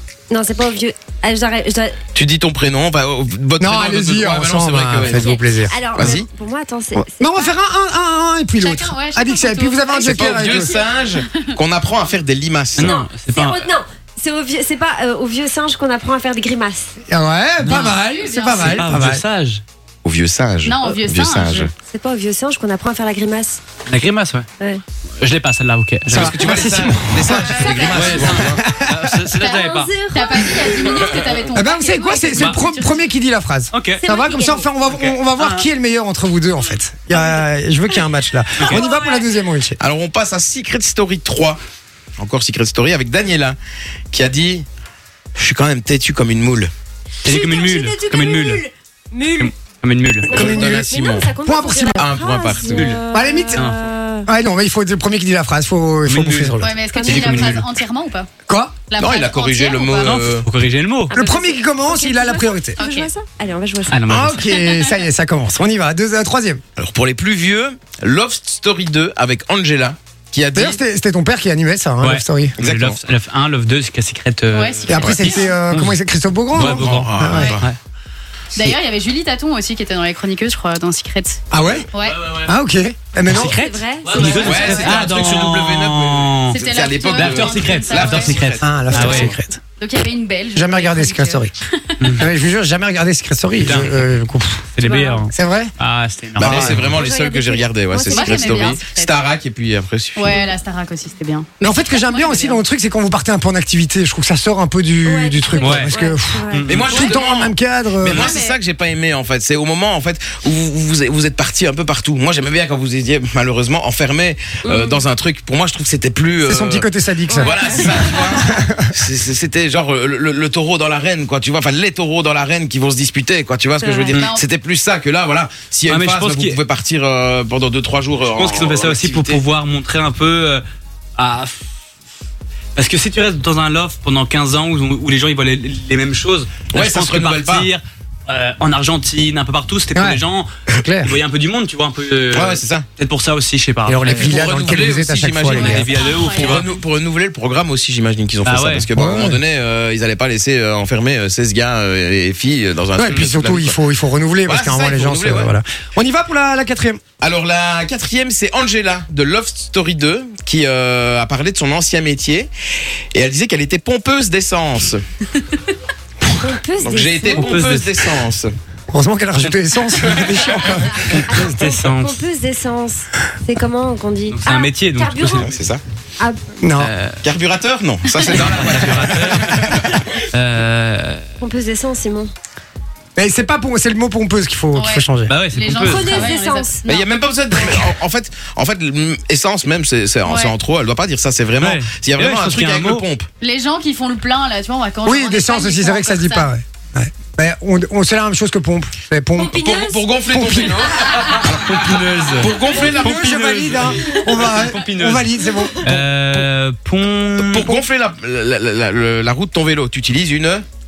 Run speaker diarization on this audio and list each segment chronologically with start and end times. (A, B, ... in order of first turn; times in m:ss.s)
0:00.3-0:02.0 A
0:02.2-0:05.4 B
0:03.6-0:05.8 C
0:05.0-0:07.6 A
0:06.0-0:06.3 B
0:07.0-0:10.8 C
0:08.6-0:11.4 D
0:10.0-0:13.0 B
0:12.8-0:13.7 E
0:12.8-0:16.9 A
0:17.1-0:19.2 C
0:17.6-0:18.0 E
0:17.7-0:18.9 D
0:18.6-0:19.6 E
0:20.0-0:21.7 B
0:20.6-0:21.7 D
0:21.9-0:23.6 A
0:23.9-0:24.5 E
0:25.2-0:27.0 E
0:26.1-0:27.4 C
0:26.1-0:28.6 B
0:27.4-0:27.9 D
0:27.4-0:28.3 A
0:27.9-0:30.0 E
0:28.3-0:29.2 C
0:29.4-0:31.1 A
0:30.1-0:33.0 D
0:31.5-0:39.8 C
0:33.7-0:34.0 E
0:34.0-0:34.8 A
0:34.9-0:35.7 E
0:37.1-0:37.4 A
0:38.6-0:39.3 A
0:39.8-0:41.6 B
0:42.2-0:43.6 B
0:44.1-0:44.7 B
0:45.4-0:46.7 B
0:47.2-0:48.6 E
0:47.2-0:49.5 A
0:49.4-0:50.3 E
0:50.3-0:54.3 A
0:50.3-0:50.9 C
0:50.3-0:51.3 B
0:51.4-0:52.1 C
0:52.0-0:53.0 B
0:52.6-0:53.0 E
0:53.1-0:53.7 C
0:54.3-0:56.8 C
0:56.1-0:57.7 E
0:56.6-0:58.3 D
0:56.9-0:57.6 A
0:58.5-0:58.8 C
0:58.9-1:00.3 D
0:59.0-1:00.5 B
1:00.0-1:01.2 E
1:01.1-1:04.2 A
1:01.1-1:02.8 C
1:02.8-1:03.1 D
1:03.9-1:04.6 E
1:04.1-1:06.6 C
1:04.5-1:04.8 D
1:06.8-1:10.8 B
1:10.5-1:12.7 C
1:12.0-1:15.1 E
1:12.6-1:13.0 B
1:14.5-1:15.5 D
1:14.9-1:17.6 C
1:15.7-1:16.0 E
1:16.5-1:17.8 E
1:16.6-1:17.7 B
1:18.6-1:21.4 D
1:21.5-1:21.9 C
1:21.9-1:22.2 D
1:22.0-1:22.5 E
1:22.4-1:23.6 C
1:23.3-1:26.6 E
1:23.4-1:25.2 A
1:24.2-1:24.6 C
1:24.2-1:24.7 D
1:24.4-1:29.3 B
1:26.5-1:28.4 D
1:27.2-1:29.3 E
1:28.6-1:29.6 C
1:29.8-1:32.1 D
1:30.5-1:31.5 C
1:32.0-1:32.3 E
1:32.1-1:34.7 C
1:33.6-1:34.0 E
1:34.8-1:37.0 E
1:34.8-1:35.3 A
1:35.3-1:35.7 C
1:36.4-1:40.4 B
1:36.4-1:36.9 C
1:36.9-1:38.8 A
1:38.0-1:39.2 D
1:40.2-1:42.6 D
1:41.6-1:48.3 C
1:45.0-1:46.7 A
1:45.6-1:46.0 E
1:46.5-1:47.1 E
1:46.7-2:09.4 B
1:48.0-1:48.3 E
1:48.1-1:48.6 D
1:54.6-1:55.1 A
1:56.4-1:58.9 C
1:57.3-1:58.4 A
2:03.8-2:04.2 A
2:04.1-2:04.4 D
2:05.9-2:06.6 E
2:08.3-2:10.6 E
2:11.2-2:11.6 E
2:12.8-2:20.5 E
2:16.7-2:17.7 B
2:19.9-2:20.2 C
2:20.8-2:21.2 C
2:21.0-2:24.4 E
2:22.3-2:22.9 B
2:23.9-2:25.9 C
2:24.2-2:33.8 B
2:25.5-2:26.7 D
2:25.6-2:26.7 E
2:28.4-2:28.9 E
2:29.0-2:29.4 C
2:33.0-2:37.0 C
2:34.4-2:35.6 B
2:37.2-2:42.5 B
2:43.1-2:45.0 B
2:46.4-2:47.6 A
2:46.8-2:48.5 B
2:47.3-2:47.9 E
2:48.9-2:51.5 C
2:51.3-2:55.5 A
2:51.3-2:52.2 E
2:54.3-2:55.6 E
2:55.4-2:55.8 B
2:56.2-2:56.5 A
2:56.6-2:56.9 C
2:56.8-2:57.2 E
2:57.2-3:00.0 B
2:58.3-2:59.8 E
3:00.3-3:01.2 E
3:01.4-3:02.3 A
3:03.2-3:05.3 C
3:04.8-3:07.1 D
3:05.3-3:06.3 E
3:05.8-3:06.8 A
3:06.9-3:13.3 B
3:07.6-3:07.9 A
3:10.3-3:10.6 D
3:11.6-3:13.0 E
3:13.4-3:16.5 D
3:15.0-3:19.6 C
3:19.4-3:20.0 A
3:19.5-3:21.6 B
3:20.3-3:20.9 C
3:21.2-3:25.3 E
3:22.4-3:23.8 B
3:22.7-3:26.5 C
3:24.0-3:24.4 A
3:25.8-3:27.8 E
3:27.4-3:30.6 B